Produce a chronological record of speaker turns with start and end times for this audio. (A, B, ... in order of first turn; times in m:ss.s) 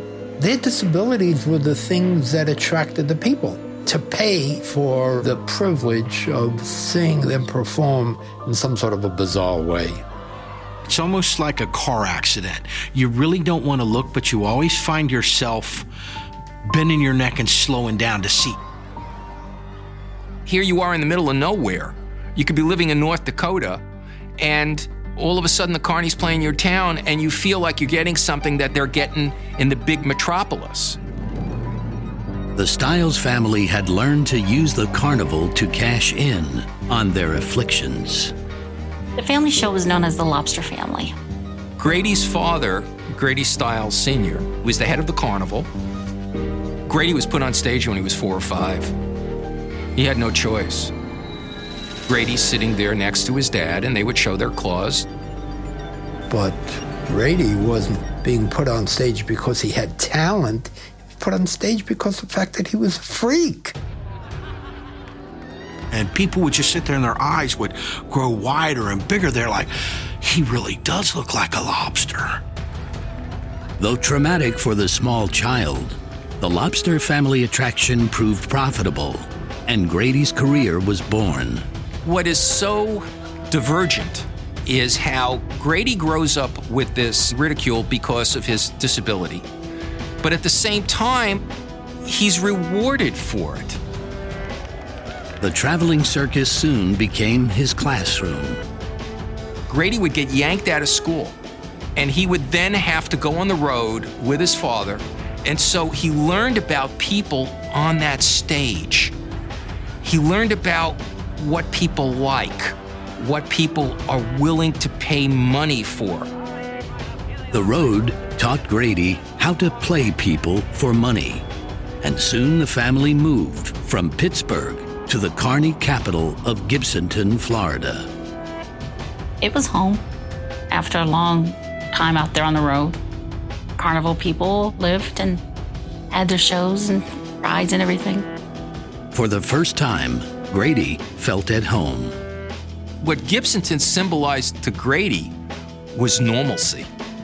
0:00.4-0:10.0 A
0:10.8-0:15.9 B
0:16.7-0:18.6 B
0:20.4-0:23.8 C
0:24.4-0:31.0 C
0:32.6-0:38.3 D
0:39.2-0:41.1 E
0:41.8-0:45.7 C
0:46.9-0:48.9 C
0:50.0-0:50.9 C
0:52.1-0:55.1 C
0:56.3-1:03.7 A
1:05.9-1:12.4 B
1:13.8-1:21.6 D
1:22.0-1:29.4 C
1:30.2-1:31.4 C
1:32.0-1:33.8 C
1:35.4-1:38.6 D
1:39.7-1:41.4 C
1:42.0-1:49.1 C
1:50.0-1:56.3 C
1:57.5-2:01.4 D
2:02.0-2:08.1 D
2:09.4-2:10.0 E
2:10.7-2:13.0 E
2:13.8-2:15.4 E
2:16.1-2:18.3 E
2:19.1-2:22.2 D
2:23.0-2:25.3 C
2:25.9-2:26.9 C